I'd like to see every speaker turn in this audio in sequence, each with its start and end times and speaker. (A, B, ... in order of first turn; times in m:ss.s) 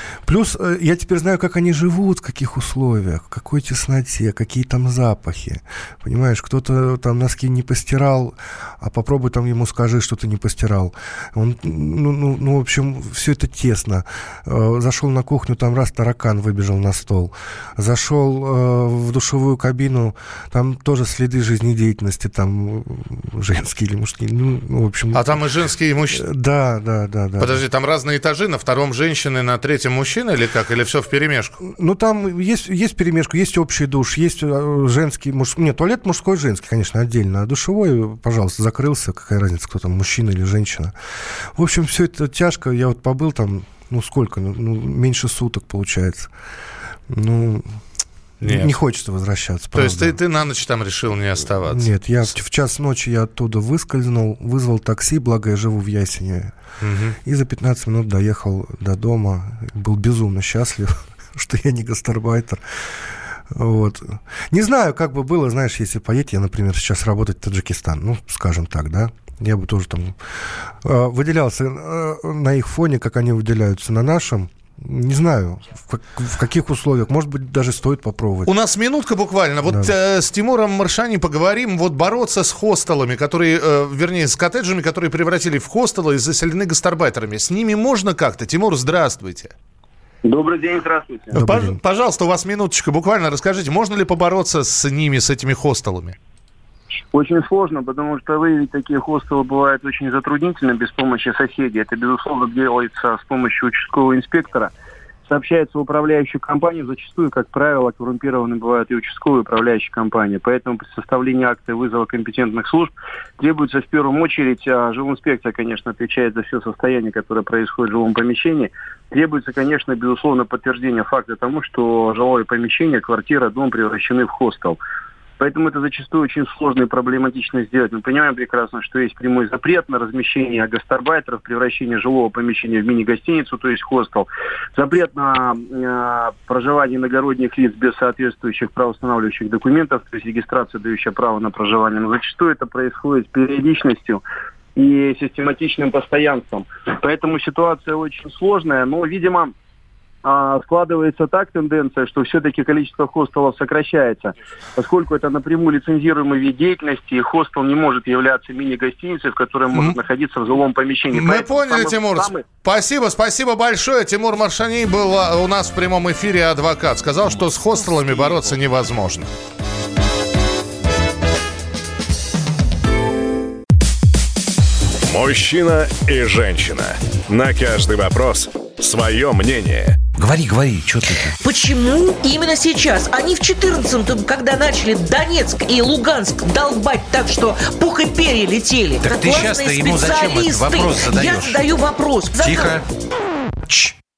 0:00.2-0:25.4 A
0:25.1-0:26.2 B
0:26.1-0:27.6 A
0:27.4-0:31.6 B
0:31.6-0:40.9 A
0:41.6-0:46.3 A
0:47.1-0:47.8 A
0:48.4-0:48.7 B
0:48.4-0:50.2 A
0:49.7-0:52.3 B
0:51.6-0:56.5 A
0:56.8-0:57.2 B
0:57.2-1:03.0 A
1:03.5-1:18.5 A
1:18.4-1:29.5 B
1:19.6-1:19.9 A
1:30.2-1:31.3 C
1:31.3-1:31.8 A
1:31.3-1:36.2 B
1:37.1-1:44.7 C
1:45.3-2:04.8 C
2:05.4-2:24.2 C
2:24.8-2:29.6 C
2:30.2-2:42.4 C
2:39.7-2:40.0 B
2:41.1-2:49.3 B
2:55.0-3:00.1 D
3:00.2-3:01.4 E
3:01.4-3:12.8 F
3:09.0-3:11.6 E
3:12.4-3:12.9 E
3:13.7-3:13.9 E